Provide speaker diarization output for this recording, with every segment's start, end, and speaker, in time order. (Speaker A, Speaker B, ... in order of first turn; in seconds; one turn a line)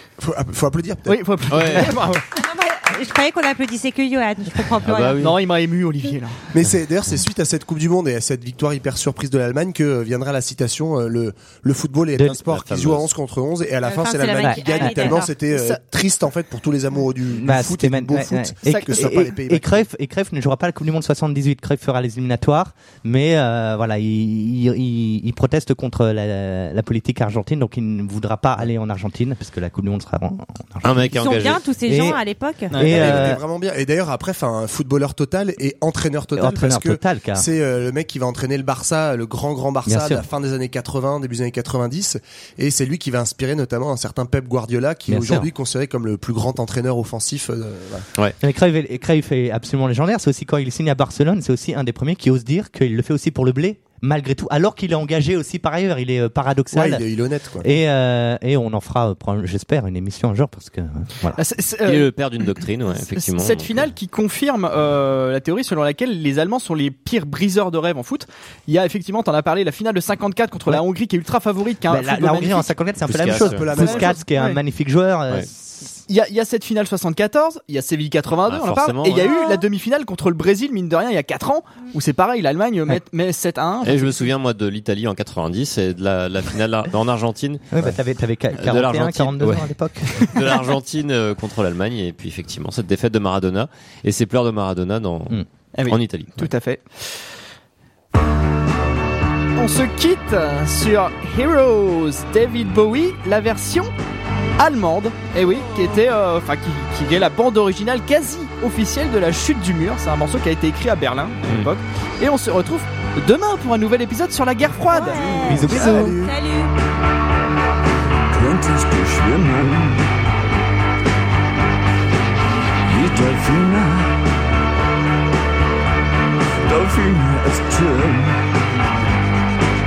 Speaker A: 0.2-2.1
Speaker B: 1.1-2.2
Speaker C: 1.5-2.0
Speaker D: 2.4-5.3
Speaker C: 4.8-5.4
Speaker B: 5.2-6.4
Speaker A: 6.5-19.8
Speaker E: 12.2-12.4
Speaker C: 12.5-13.1
Speaker D: 13.8-15.3
Speaker E: 14.4-15.2
Speaker B: 15.5-15.8
Speaker E: 17.4-31.3
Speaker B: 18.6-19.2
Speaker C: 30.8-31.6
Speaker D: 31.2-32.8
Speaker E: 31.9-32.2
Speaker B: 32.7-33.3
Speaker E: 32.8-33.4
Speaker A: 32.8-48.1
Speaker E: 36.4-37.5
Speaker E: 39.9-40.2
Speaker E: 45.1-45.5
Speaker E: 48.4-57.0
Speaker A: 56.7-57.7
Speaker E: 57.6-61.4
Speaker B: 61.4-62.1
Speaker C: 61.8-63.9
Speaker B: 62.9-72.7
Speaker E: 71.9-76.0
Speaker C: 73.1-73.7
Speaker A: 73.2-74.2
Speaker B: 73.7-74.6
Speaker B: 76.1-84.2
Speaker C: 78.5-79.3
Speaker D: 79.2-79.6
Speaker C: 83.8-88.0
Speaker E: 87.7-90.3
Speaker C: 88.6-89.7
Speaker C: 90.2-96.5
Speaker B: 95.8-97.2
Speaker B: 99.6-103.9
Speaker B: 104.6-116.1
Speaker D: 114.9-116.7
Speaker E: 115.5-116.2
Speaker F: 118.3-120.1
Speaker F: 122.9-124.2
Speaker F: 126.6-128.4